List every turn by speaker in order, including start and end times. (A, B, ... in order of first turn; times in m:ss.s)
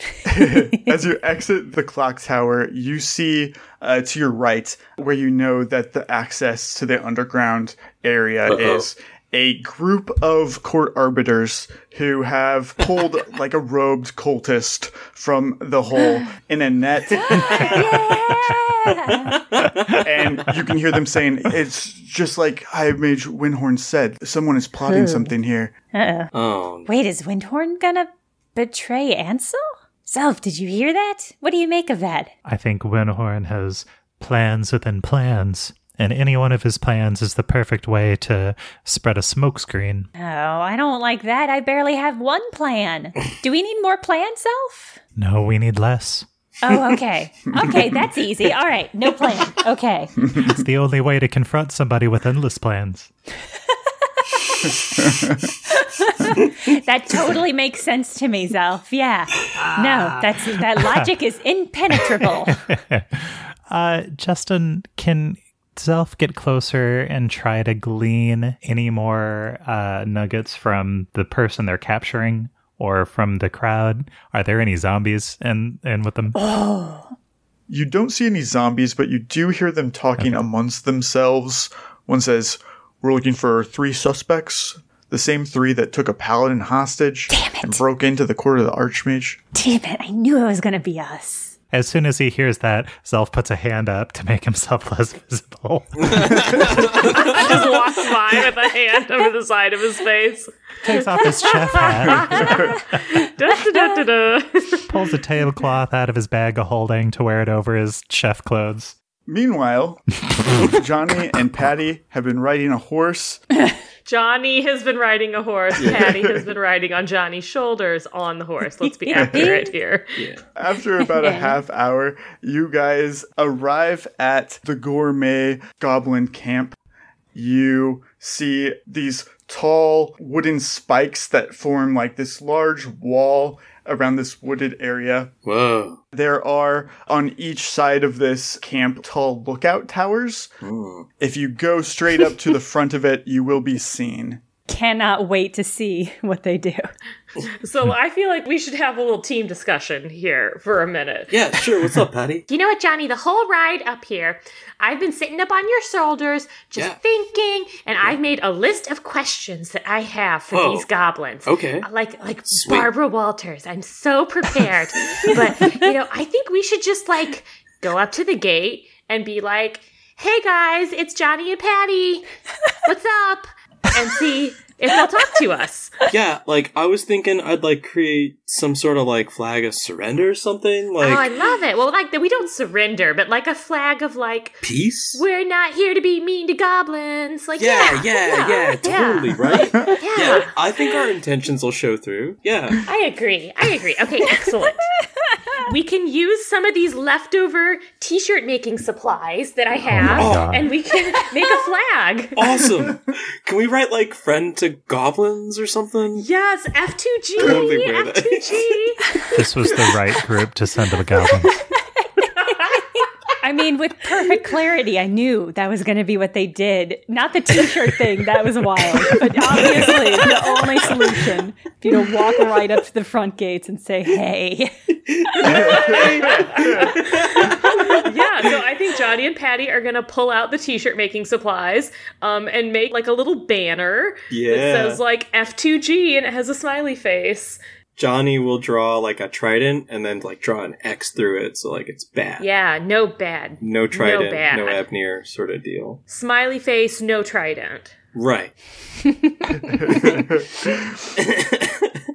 0:00.2-0:18.1 A
0:00.5-0:00.8 B
0:08.5-0:08.8 C
0:17.2-0:19.4 B
0:17.5-0:17.8 C
0:19.3-0:20.0 C
0:20.0-0:25.7 A
0:24.8-0:25.3 B
0:25.9-0:26.3 B
0:26.3-0:26.9 C
0:26.8-0:32.3 B
0:32.4-0:40.1 D
0:40.2-0:45.0 B
0:45.2-0:46.3 D
0:46.6-0:50.2 B
0:50.3-0:53.1 D
0:54.2-1:02.6 B
0:59.5-1:01.1 D
1:02.5-1:16.4 D
1:16.3-1:17.1 B
1:17.7-1:29.4 A
1:20.2-1:20.4 D
1:27.3-1:27.8 B
1:29.5-1:31.5 B
1:31.7-1:36.8 D
1:36.1-1:37.7 C
1:37.0-1:44.9 E
1:40.8-1:43.0 D
1:42.4-1:42.7 A
1:44.9-1:49.0 D
1:49.2-1:53.4 A
1:54.0-2:00.3 E
1:55.8-1:56.3 C
1:56.0-1:56.3 A
1:59.1-1:59.5 A
1:59.1-1:59.7 B
2:00.2-2:00.4 C
2:00.6-2:06.8 A
2:01.0-2:01.6 B
2:07.3-2:15.3 A
2:15.4-2:16.0 C
2:16.1-2:20.5 A
2:20.6-2:21.1 C
2:21.2-2:24.4 A
2:24.7-2:26.9 B
2:27.5-2:52.3 E
2:31.3-2:32.4 C
2:40.5-2:40.9 C
2:41.4-2:41.9 C
2:42.5-2:42.9 C
2:45.1-2:45.4 C
2:52.8-2:56.0 E
2:56.1-3:01.3 C
3:01.0-3:10.8 E
3:04.6-3:05.2 C
3:07.6-3:12.9 C
3:12.8-3:14.9 E
3:15.6-3:22.4 E
3:19.9-3:20.7 D
3:20.0-3:20.6 C
3:22.4-3:26.2 C
3:26.2-3:29.0 E
3:27.4-3:28.8 C
3:29.3-3:31.6 D
3:32.2-3:32.5 B
3:33.4-3:44.7 B
3:39.6-3:40.0 D
3:45.1-3:48.5 C
3:45.4-3:57.6 E
3:45.5-3:46.0 A
3:54.3-3:55.0 C
3:58.0-4:02.4 C
4:02.4-4:04.8 E
4:03.6-4:06.0 C
4:06.1-4:07.9 E
4:08.1-4:08.5 C
4:09.6-4:10.9 A
4:09.9-4:10.2 C
4:11.1-4:12.0 C